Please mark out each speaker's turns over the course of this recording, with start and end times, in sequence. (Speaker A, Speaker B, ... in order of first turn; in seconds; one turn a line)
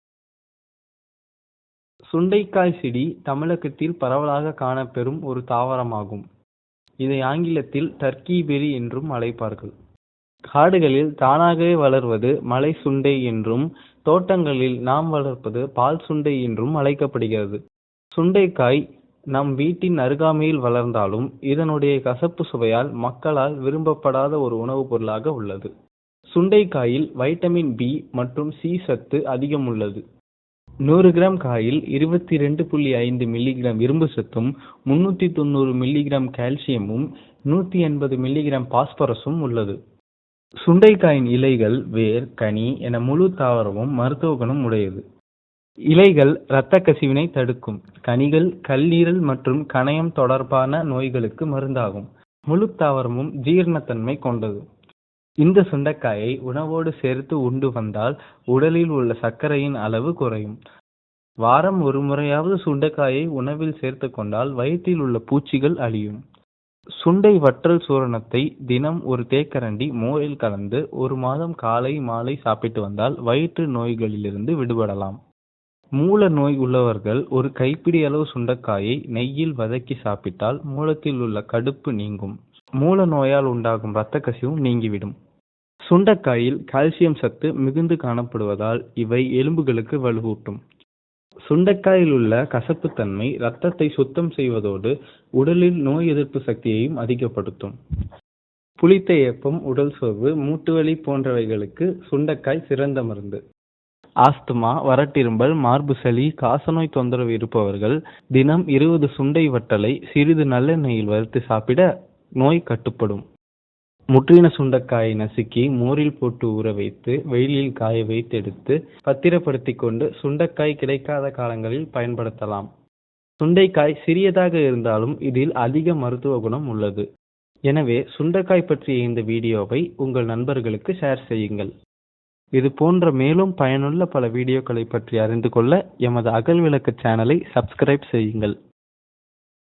Speaker A: 2.1-6.2
Speaker A: 7.0-9.7
Speaker A: 10.5-17.6
Speaker A: 18.1-18.8
Speaker A: 19.3-25.7
Speaker A: 26.3-30.0
Speaker A: 30.9-39.8
Speaker A: 40.6-45.0
Speaker A: 45.9-54.6
Speaker A: 55.4-60.6
Speaker A: 61.4-66.2
Speaker A: 67.0-75.2
Speaker A: 76.0-85.1
Speaker A: 85.9-90.6
Speaker A: 91.5-97.7
Speaker A: 98.8-103.4
Speaker A: 104.2-111.8
Speaker A: 112.4-113.2
Speaker A: 114.1-122.7
Speaker A: 123.4-127.0
Speaker A: 127.7-131.7
Speaker A: 132.6-138.5